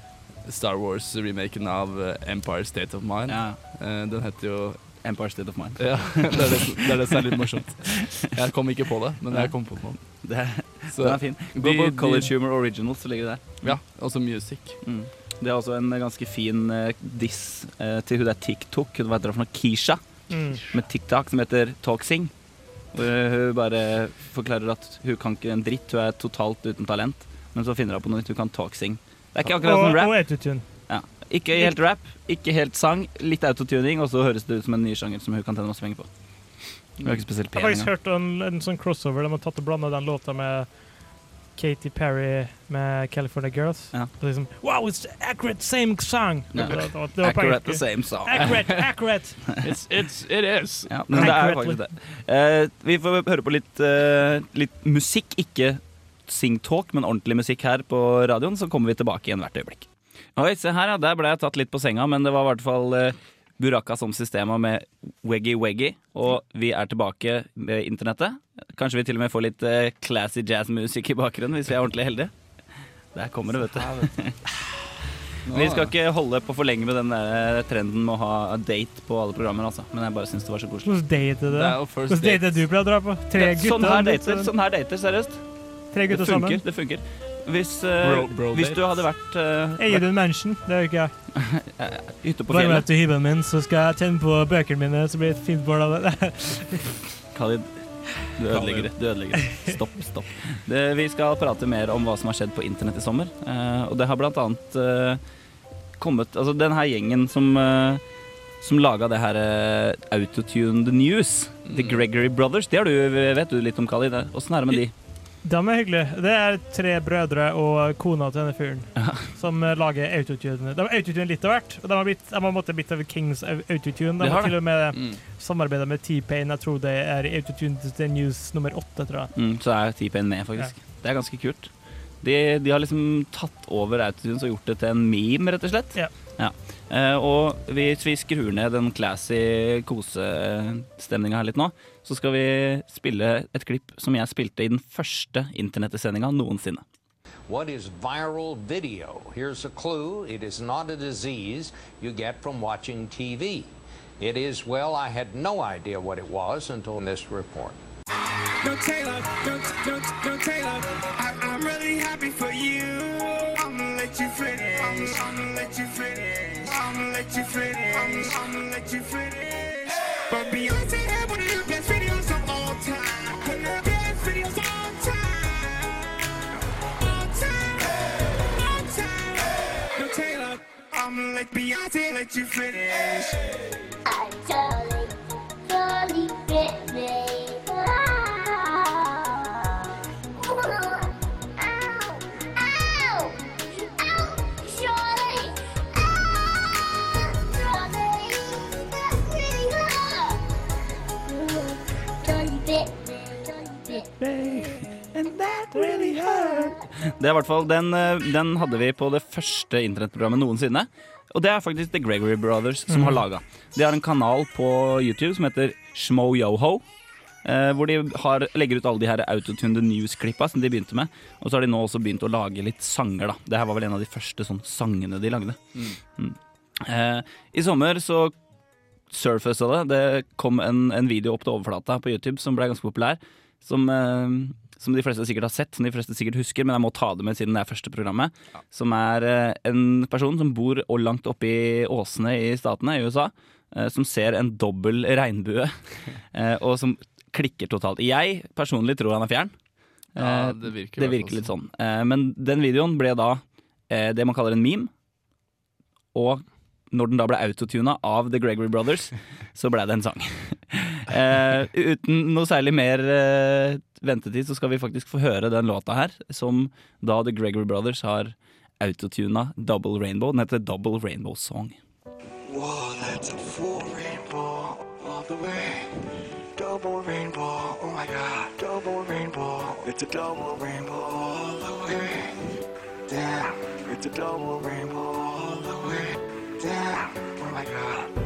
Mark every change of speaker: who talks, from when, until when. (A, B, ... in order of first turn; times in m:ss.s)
0:00.4-0:04.9 A
0:03.3-0:03.6 B
0:05.0-0:06.7 B
0:05.8-0:10.0 A
0:10.1-0:13.8 B
0:10.9-0:12.3 A
0:13.6-0:14.8 A
0:14.8-0:20.0 B
0:20.3-0:20.6 C
0:20.6-0:22.3 B
0:22.9-0:30.4 B
0:29.5-0:30.6 C
0:30.9-0:36.1 B
0:37.0-0:37.9 B
0:37.5-0:40.8 C
0:41.5-0:49.4 C
0:46.5-0:48.8 B
0:48.4-0:48.8 A
0:49.6-0:51.3 A
0:50.9-1:12.3 B
0:51.1-0:51.8 C
1:13.1-1:14.4 B
1:13.7-1:14.1 A
1:15.4-1:15.9 A
1:15.5-1:20.9 B
1:20.8-1:24.5 C
1:21.5-1:22.7 A
1:23.3-1:25.4 B
1:25.9-1:26.6 C
1:26.1-1:30.0 B
1:28.0-1:28.8 A
1:29.8-1:31.1 C
1:31.3-1:32.8 B
1:32.5-1:36.9 C
1:37.3-1:37.7 B
1:38.2-1:45.2 B
1:38.5-1:38.9 A
1:46.0-1:48.0 B
1:48.6-1:54.9 B
1:51.6-1:52.0 A
1:55.4-2:09.3 C
1:59.0-1:59.3 B
2:04.2-2:04.9 B
2:04.9-2:05.2 A
2:09.3-2:26.8 B
2:27.5-2:37.8 D
2:38.6-2:55.9 E
2:57.1-2:57.4 F
2:58.4-3:03.4 E
3:04.0-3:20.5 F
3:21.2-3:24.1 F
3:24.2-3:36.8 B
3:32.9-3:33.2 C
3:37.4-3:48.3 B
3:49.1-4:09.5 B
4:10.1-4:14.9 B
4:10.2-4:11.5 A
4:16.1-4:31.8 B
4:32.5-4:35.8 E
4:36.6-4:42.3 E
4:43.1-4:48.1 E